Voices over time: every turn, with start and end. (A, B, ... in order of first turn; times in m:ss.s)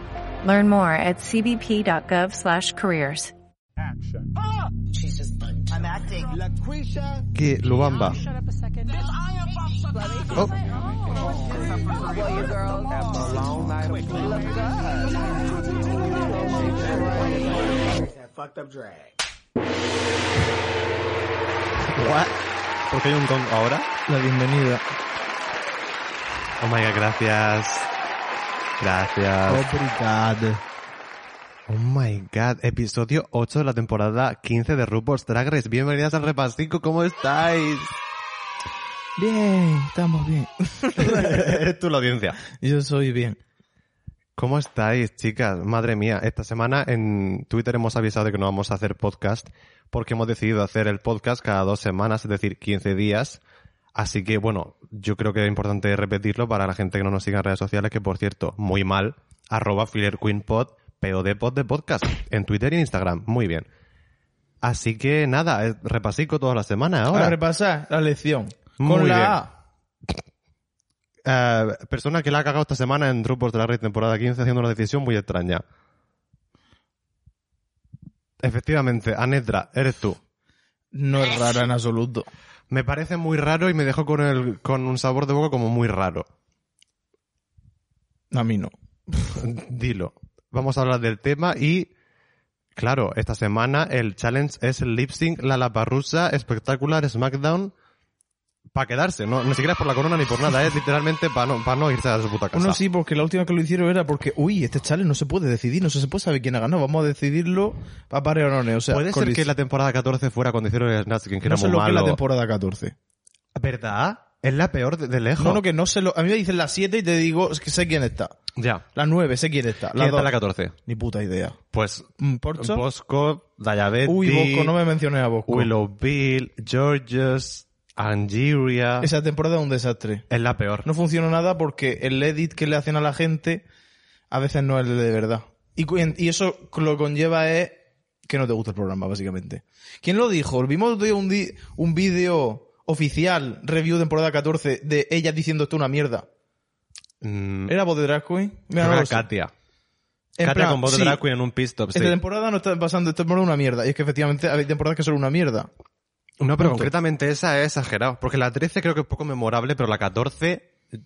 0:00.4-0:03.3 A
0:05.0-0:06.4 B
0:07.3-0:08.2 C
0:11.6-0:14.6 B
0:16.1-0:19.1 B
0:21.8-0:23.9 C
0:24.1-0:24.8 D
0:26.6-0:27.9 C
0:28.8-0:29.7 C
0:29.5-0:30.6 D
0:31.7-0:37.9 C
0:39.2-0:41.6 D
0:41.0-0:42.4 C
0:42.5-0:43.4 D
0:44.4-0:53.4 C
0:53.9-1:03.7 C
1:04.6-1:07.4 C
1:07.1-1:09.5 D
1:08.8-1:09.4 C
1:11.2-1:15.6 C
1:18.4-1:20.2 C
1:20.9-1:22.3 D
1:22.7-1:26.3 C
1:28.3-1:29.3 D
1:29.3-1:31.9 C
1:32.8-1:37.7 C
1:38.7-1:42.8 C
1:42.5-1:49.5 D
1:48.9-1:52.2 C
1:51.4-1:52.9 D
1:53.6-1:55.6 C
1:55.4-1:58.3 D
1:58.6-1:58.8 C
1:58.9-2:00.3 D
2:00.0-2:00.7 C
2:00.8-2:01.6 D
2:01.7-2:04.7 C
2:02.2-2:02.8 D
2:04.0-2:05.7 D
2:05.5-2:09.1 C
2:09.0-2:10.3 D
2:10.3-2:10.9 C
2:10.8-2:13.6 D
2:14.3-2:26.2 D
2:27.2-2:27.7 C
2:27.7-2:29.3 D
2:28.8-2:29.5 C
2:30.4-2:31.2 D
2:30.4-2:32.2 C
2:31.9-2:35.7 D
2:36.4-2:40.7 C
2:36.6-2:36.9 D